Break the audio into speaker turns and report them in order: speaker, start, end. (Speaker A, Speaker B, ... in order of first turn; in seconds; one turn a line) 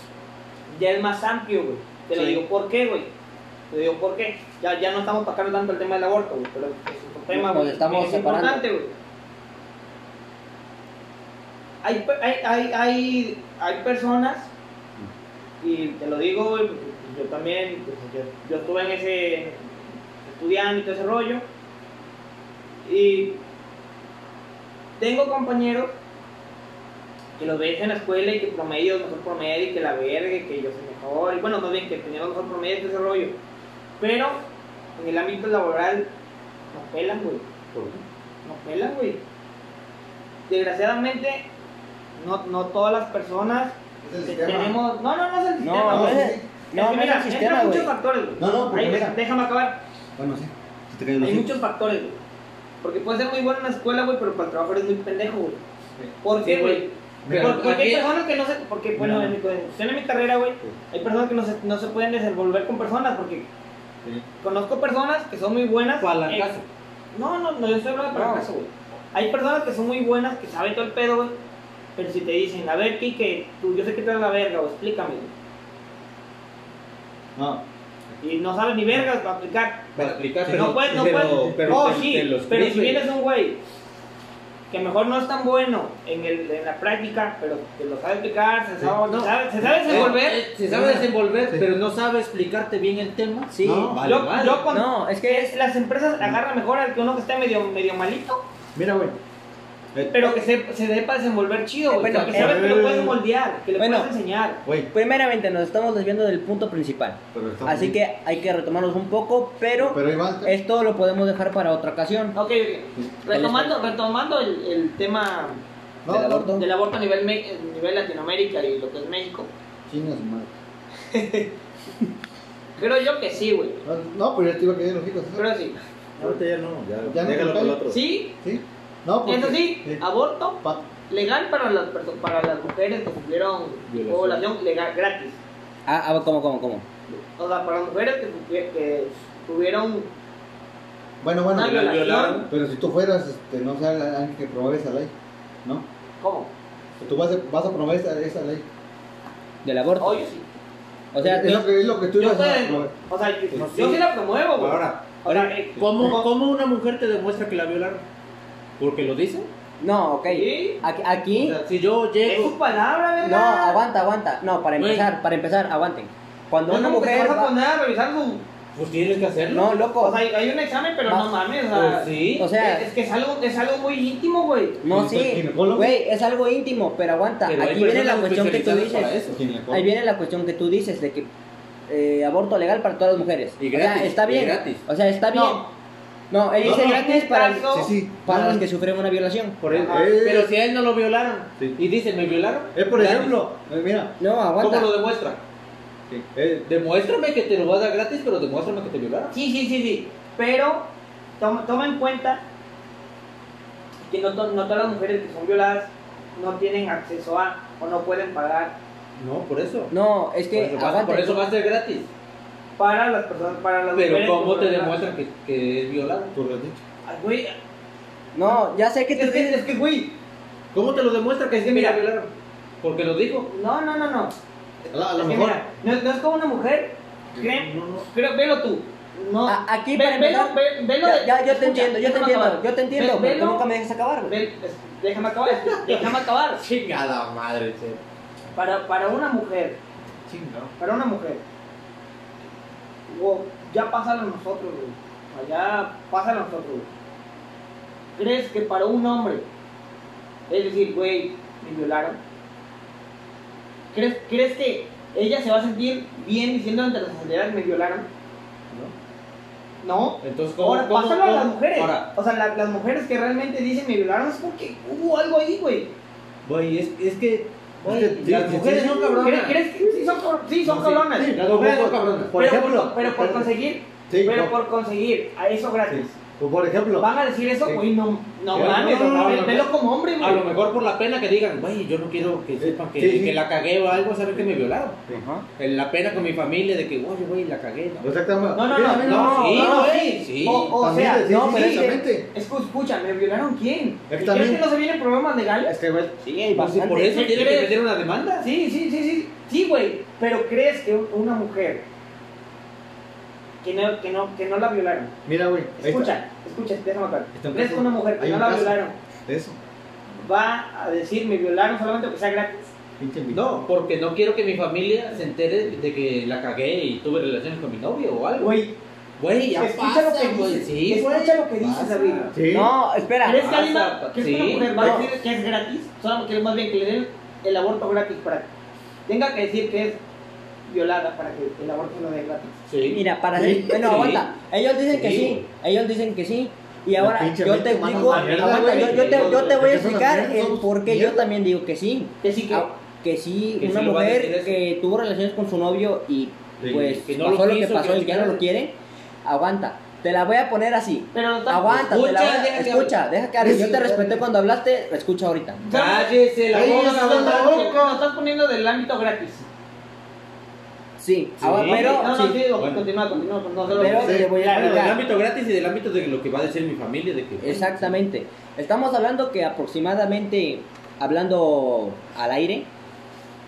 Speaker A: 0.7-3.1
Speaker B: 2.1-2.4
Speaker A: 3.7-8.9
Speaker B: 7.3-8.6
Speaker A: 11.8-14.5
Speaker A: 15.6-21.4
Speaker A: 22.8-23.4
Speaker A: 25.0-25.9
Speaker A: 27.4-33.4
Speaker A: 34.0-34.4
Speaker A: 35.0-36.1
Speaker A: 36.7-37.4
Speaker C: 37.7-38.0
Speaker A: 38.4-39.2
Speaker A: 40.5-41.5
Speaker A: 42.1-49.8
Speaker D: 44.0-44.8
Speaker B: 45.6-47.9
Speaker D: 45.9-46.5
Speaker D: 48.4-49.2
Speaker D: 50.2-51.5
Speaker A: 51.2-52.2
Speaker A: 52.8-55.6
Speaker A: 56.2-63.5
Speaker C: 56.4-58.1
Speaker D: 57.2-57.6
Speaker D: 59.0-59.3
Speaker A: 64.4-66.5
Speaker C: 66.0-66.7
Speaker A: 67.1-71.4
Speaker B: 68.1-68.5
Speaker A: 72.0-75.3
Speaker D: 77.3-77.6
Speaker A: 78.2-83.6
Speaker C: 80.0-83.0
Speaker D: 80.0-81.6
Speaker A: 84.7-90.4
Speaker C: 89.1-94.7
Speaker D: 89.6-90.1
Speaker D: 90.7-91.6
Speaker B: 93.5-93.9
Speaker D: 93.6-94.0
Speaker A: 94.0-98.5
Speaker B: 94.7-95.5
Speaker D: 98.7-99.2
Speaker D: 99.9-100.4
Speaker A: 100.1-104.6
Speaker B: 101.9-102.6
Speaker D: 102.3-103.2
Speaker B: 103.8-104.1
Speaker D: 104.6-104.9
Speaker B: 104.9-112.3
Speaker D: 107.3-108.0
Speaker D: 109.7-110.5
Speaker A: 112.3-115.6
Speaker B: 113.3-113.8
Speaker D: 116.0-116.5
Speaker B: 116.1-116.7
Speaker A: 116.5-119.5
Speaker D: 119.9-120.5
Speaker A: 121.1-121.5
Speaker A: 122.8-123.8
Speaker D: 123.8-125.4
Speaker A: 125.3-125.8
Speaker C: 126.2-128.0
Speaker D: 127.0-127.8
Speaker A: 127.9-128.3
Speaker D: 128.4-130.0
Speaker A: 129.2-135.4
Speaker D: 130.6-130.8
Speaker C: 133.9-134.4
Speaker B: 135.8-136.8
Speaker A: 137.1-140.1
Speaker D: 141.2-141.8
Speaker A: 141.5-142.5
Speaker C: 141.6-142.5
Speaker D: 142.5-145.1
Speaker A: 146.2-146.5
Speaker D: 147.0-148.7
Speaker B: 149.6-150.2
Speaker A: 150.0-150.4
Speaker B: 151.1-151.6
Speaker D: 151.2-152.9
Speaker A: 152.2-156.3
Speaker C: 153.5-158.0
Speaker C: 158.8-159.5
Speaker B: 159.8-161.6
Speaker A: 160.2-160.8
Speaker C: 161.3-162.6
Speaker A: 162.2-163.8
Speaker B: 163.2-167.5
Speaker C: 164.8-165.1
Speaker A: 166.7-168.4
Speaker C: 168.7-169.8
Speaker B: 169.5-170.2
Speaker A: 170.0-174.8
Speaker B: 171.1-171.3
Speaker C: 171.7-172.5
Speaker B: 172.4-172.9
Speaker B: 174.8-179.2
Speaker D: 174.8-176.0
Speaker C: 177.4-179.4
Speaker D: 179.3-179.9
Speaker B: 179.7-181.3
Speaker B: 181.9-185.6
Speaker C: 183.6-184.8
Speaker A: 185.3-185.7
Speaker B: 186.3-187.7
Speaker A: 186.6-187.9
Speaker D: 186.6-187.0
Speaker D: 187.7-188.7
Speaker B: 188.2-189.6
Speaker C: 189.6-193.4
Speaker D: 189.7-190.5
Speaker A: 189.7-190.1
Speaker D: 192.7-194.2
Speaker B: 194.2-194.9
Speaker C: 194.6-195.4
Speaker D: 196.1-196.6
Speaker C: 196.6-199.3
Speaker A: 199.3-202.4
Speaker A: 204.1-208.8
Speaker C: 209.2-209.9
Speaker B: 209.9-211.4
Speaker C: 210.5-212.1
Speaker A: 212.8-215.0
Speaker C: 213.9-216.3
Speaker D: 216.3-216.8
Speaker A: 217.0-217.5
Speaker B: 218.3-219.6
Speaker A: 219.1-220.2
Speaker C: 220.7-222.3
Speaker A: 221.6-222.0
Speaker C: 222.8-223.5
Speaker A: 223.5-233.7
Speaker D: 224.9-225.6
Speaker D: 227.3-228.1
Speaker B: 229.4-234.4
Speaker A: 234.2-236.6
Speaker C: 235.4-238.0
Speaker A: 238.5-239.8
Speaker D: 240.2-240.7
Speaker A: 240.8-241.4
Speaker A: 243.1-246.9
Speaker A: 248.2-249.4
Speaker A: 250.5-252.2
Speaker A: 253.9-258.1
Speaker A: 259.8-265.9
Speaker C: 260.2-262.1
Speaker C: 266.4-269.6
Speaker D: 267.8-269.3
Speaker A: 269.2-271.4
Speaker D: 270.6-272.3
Speaker C: 270.7-272.9
Speaker A: 272.3-276.1
Speaker D: 273.0-273.5
Speaker D: 274.1-274.5
Speaker D: 275.9-277.1
Speaker A: 277.0-280.4
Speaker D: 278.5-279.6
Speaker C: 278.5-279.7
Speaker C: 280.2-285.0
Speaker D: 282.6-283.4
Speaker D: 284.3-285.2
Speaker B: 285.1-285.4
Speaker C: 285.6-288.0
Speaker D: 288.0-289.5
Speaker A: 288.5-295.7
Speaker B: 289.0-289.9
Speaker C: 289.0-290.7
Speaker D: 290.7-292.3
Speaker D: 294.1-294.6
Speaker D: 295.6-296.2
Speaker B: 296.2-297.5
Speaker C: 296.5-298.5
Speaker A: 297.0-297.8
Speaker A: 298.4-301.9
Speaker A: 303.6-305.1
Speaker D: 305.2-306.1
Speaker A: 305.8-309.0
Speaker D: 307.3-309.6
Speaker A: 310.1-312.7
Speaker D: 313.0-313.6
Speaker C: 313.3-318.6
Speaker A: 318.4-318.8
Speaker C: 319.2-322.4
Speaker A: 319.6-322.3
Speaker D: 322.3-322.7
Speaker B: 322.5-323.4
Speaker A: 323.2-328.5
Speaker C: 323.3-325.0
Speaker B: 324.8-325.1
Speaker A: 329.1-330.0
Speaker A: 330.7-332.5
Speaker C: 332.7-333.0
Speaker B: 332.8-355.6
Speaker D: 333.3-333.8
Speaker C: 333.6-334.3
Speaker C: 334.9-335.4
Speaker D: 336.9-341.2
Speaker A: 337.9-339.5
Speaker C: 338.6-339.6
Speaker A: 342.2-342.7
Speaker C: 343.6-344.6
Speaker D: 346.6-346.9
Speaker C: 346.6-348.4
Speaker A: 351.1-351.8
Speaker C: 351.7-352.9
Speaker D: 353.4-354.2
Speaker A: 355.6-359.4
Speaker C: 355.7-357.9
Speaker D: 356.5-358.0
Speaker B: 361.0-362.4
Speaker C: 361.4-362.8
Speaker A: 361.6-364.8
Speaker D: 363.8-364.3
Speaker B: 363.8-365.0
Speaker C: 363.8-368.0
Speaker B: 367.4-372.7